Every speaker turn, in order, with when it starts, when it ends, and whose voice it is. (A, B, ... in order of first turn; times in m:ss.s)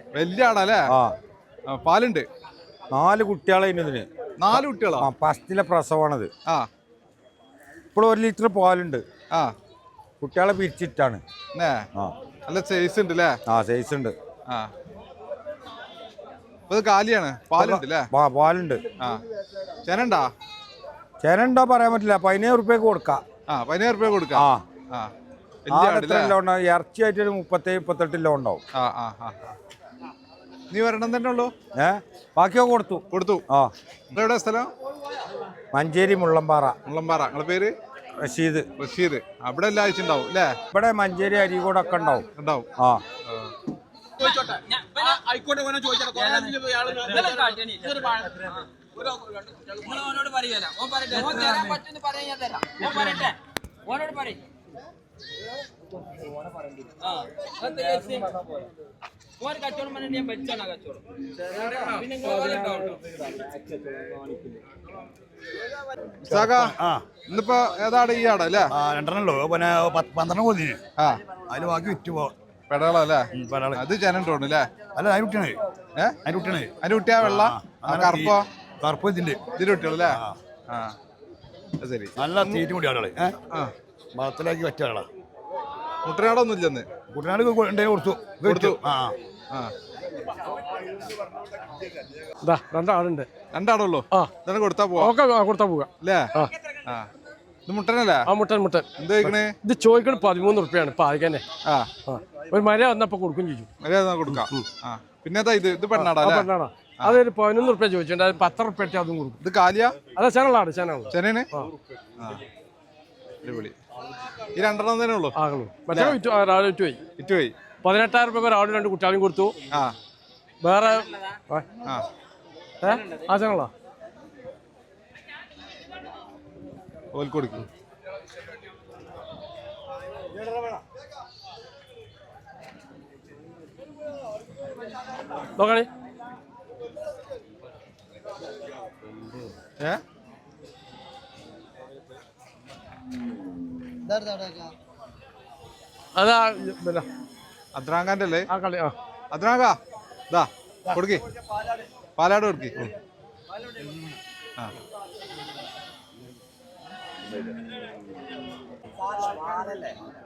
0:00.1-0:00.9 A
0:00.9-0:01.2 B
0:01.7-0:02.3 A
0:02.9-0:06.3 B
0:04.4-0:05.1 A
0:07.9-0:09.0 B
0:10.2-0:11.2 B
0:11.6-0:11.9 A
0:12.5-0:13.4 A
0:13.5-0:14.1 B
0:16.7-0:18.1 A
0:17.6-0:18.8 B
0:19.9-0:20.3 A
0:21.2-0:23.2 B
0:23.5-0:25.1 A
0:24.3-0:24.6 B
0:25.7-0:26.3 A
0:25.7-0:28.6 B
0:28.8-0:29.4 A
0:30.7-0:31.5 A
0:31.8-0:33.7 B
0:33.1-0:33.4 A
0:34.1-0:34.7 A
0:35.7-0:36.8 B
0:36.9-0:37.7 A
0:38.2-0:38.7 B
0:38.8-0:40.6 A
0:40.7-0:42.3 B
0:42.4-0:42.7 A
0:43.3-0:43.5 A
0:44.2-0:54.5 C
0:57.0-0:58.7 C
0:59.4-1:04.4 C
1:06.3-1:07.1 D
1:06.3-1:08.7 A
1:08.7-1:10.8 D
1:11.4-1:12.3 D
1:12.7-1:14.7 A
1:13.3-1:13.8 D
1:14.9-1:15.6 D
1:16.2-1:20.4 D
1:16.8-1:18.5 A
1:19.6-1:20.9 A
1:21.8-1:22.6 A
1:22.2-1:23.4 D
1:24.2-1:25.1 D
1:26.0-1:26.9 A
1:27.1-1:29.2 D
1:28.4-1:28.8 A
1:32.4-1:33.3 E
1:33.5-1:35.1 A
1:35.0-1:36.5 E
1:36.0-1:36.3 A
1:37.7-1:38.2 A
1:38.3-1:41.4 E
1:39.0-1:39.5 A
1:42.1-1:43.7 E
1:43.8-1:46.5 A
1:46.0-1:49.4 E
1:49.4-1:50.0 A
1:50.0-1:51.7 E
1:51.1-1:51.5 A
1:52.2-1:52.4 A
1:53.4-1:53.8 A
1:54.6-1:55.3 A
1:55.4-1:57.0 E
1:57.2-1:57.6 A
1:57.8-1:59.6 E
2:00.6-2:01.7 E
2:02.8-2:03.7 E
2:02.9-2:03.3 C
2:07.1-2:07.7 A
2:15.6-2:15.9 E
2:26.2-2:27.1 E
2:27.8-2:28.5 A
2:28.5-2:29.0 E
2:29.3-2:29.8 A
2:30.3-2:31.2 A
2:32.2-2:32.9 A